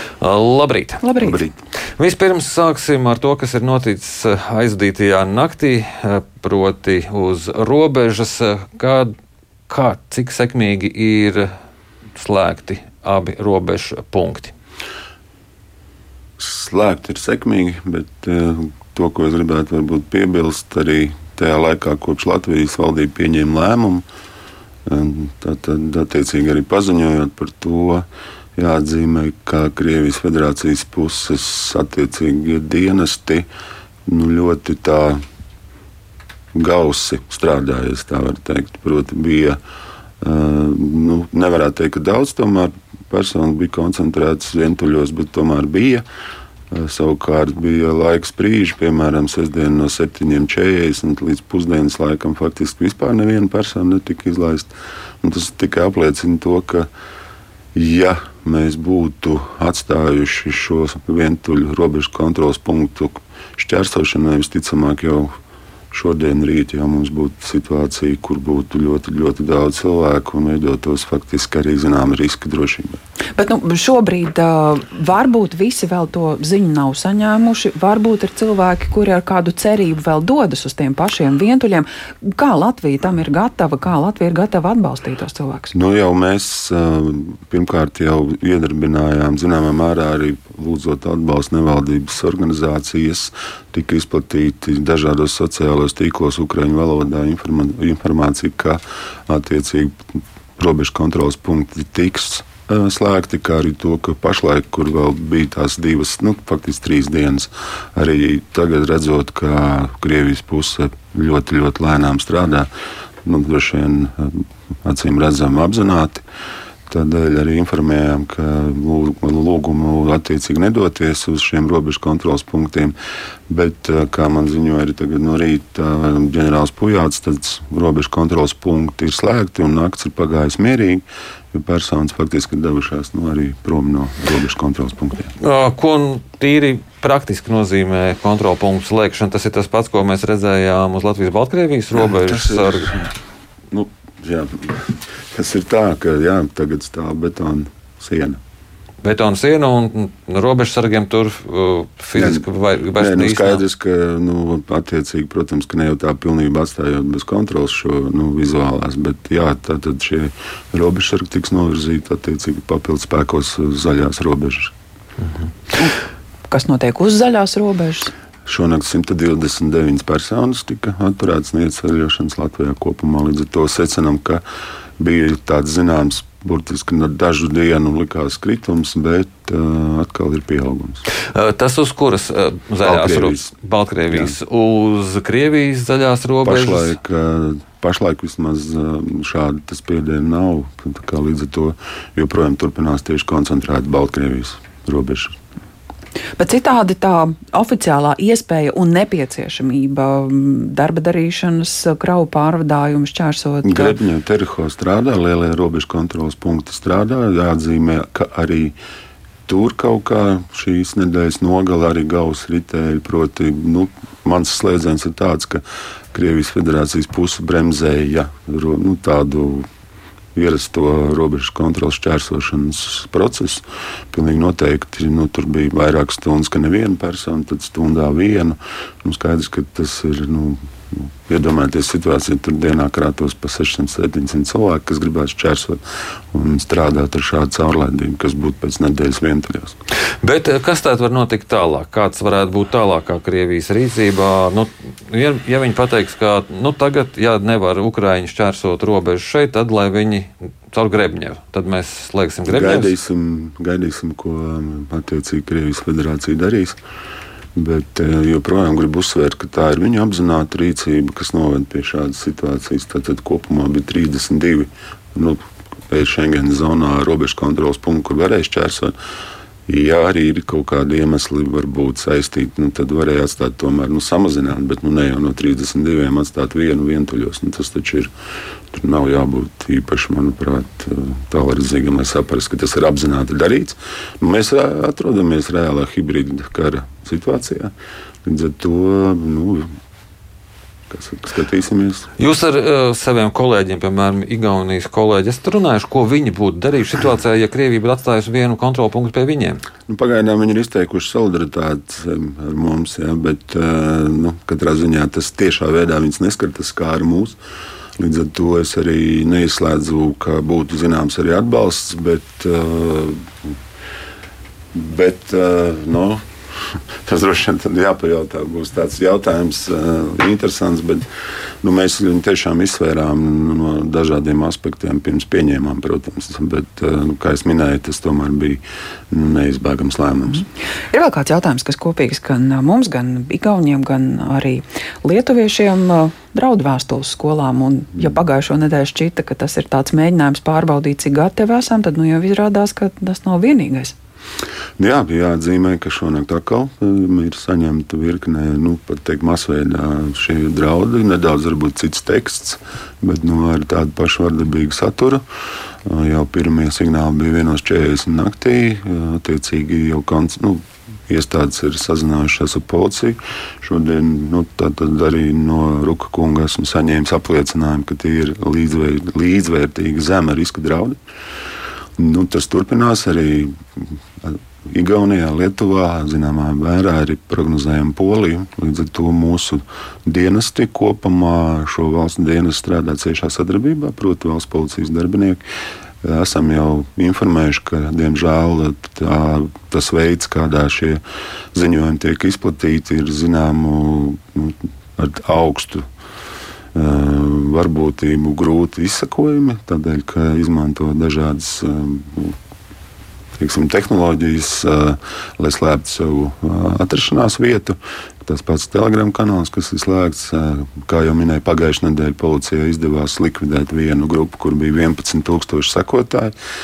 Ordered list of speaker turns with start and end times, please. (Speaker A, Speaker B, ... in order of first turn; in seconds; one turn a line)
Speaker A: 0.2-1.0
Speaker B: 1.0-1.4
Speaker A: 2.0-9.1
Speaker A: 9.7-11.5
Speaker A: 12.2-14.5
Speaker C: 16.4-24.0
Speaker C: 24.9-33.5
Speaker C: 34.0-35.2
Speaker C: 36.5-39.6
Speaker C: 40.2-46.0
Speaker C: 46.7-56.9
Speaker C: 57.8-65.3
Speaker C: 65.9-73.0
Speaker B: 73.3-85.8
Speaker C: 85.7-99.9
Speaker C: 100.6-112.7
Speaker C: 113.2-116.2
Speaker C: 116.9-122.9
Speaker C: 123.5-135.3
Speaker A: 135.4-143.1
Speaker C: 142.0-143.1
Speaker C: 143.7-148.4
Speaker A: 149.0-153.6
Speaker C: 152.2-164.7
Speaker B: 166.5-168.1
Speaker C: 168.4-174.4
Speaker C: 175.0-181.0
Speaker A: 181.3-187.0
Speaker C: 182.8-183.5
Speaker C: 184.1-184.3
Speaker C: 186.4-195.3
Speaker B: 196.4-204.0
Speaker C: 203.6-208.8
Speaker C: 209.5-219.7
Speaker C: 220.3-235.8
Speaker C: 236.3-239.8
Speaker A: 240.2-252.9
Speaker C: 252.5-256.8
Speaker C: 257.6-268.9
Speaker C: 269.7-278.1
Speaker C: 278.7-287.7
Speaker C: 288.2-289.7
Speaker C: 290.9-292.1
Speaker A: 292.2-299.6
Speaker C: 299.9-307.4
Speaker C: 308.0-313.2
Speaker C: 314.7-316.2
Speaker C: 317.0-321.0
Speaker C: 321.6-330.5
Speaker B: 330.9-343.9
Speaker C: 344.8-355.2
Speaker C: 355.9-371.0
Speaker C: 372.0-385.4
Speaker C: 386.0-391.0
Speaker C: 391.5-395.8
Speaker C: 396.8-402.4
Speaker C: 403.4-416.4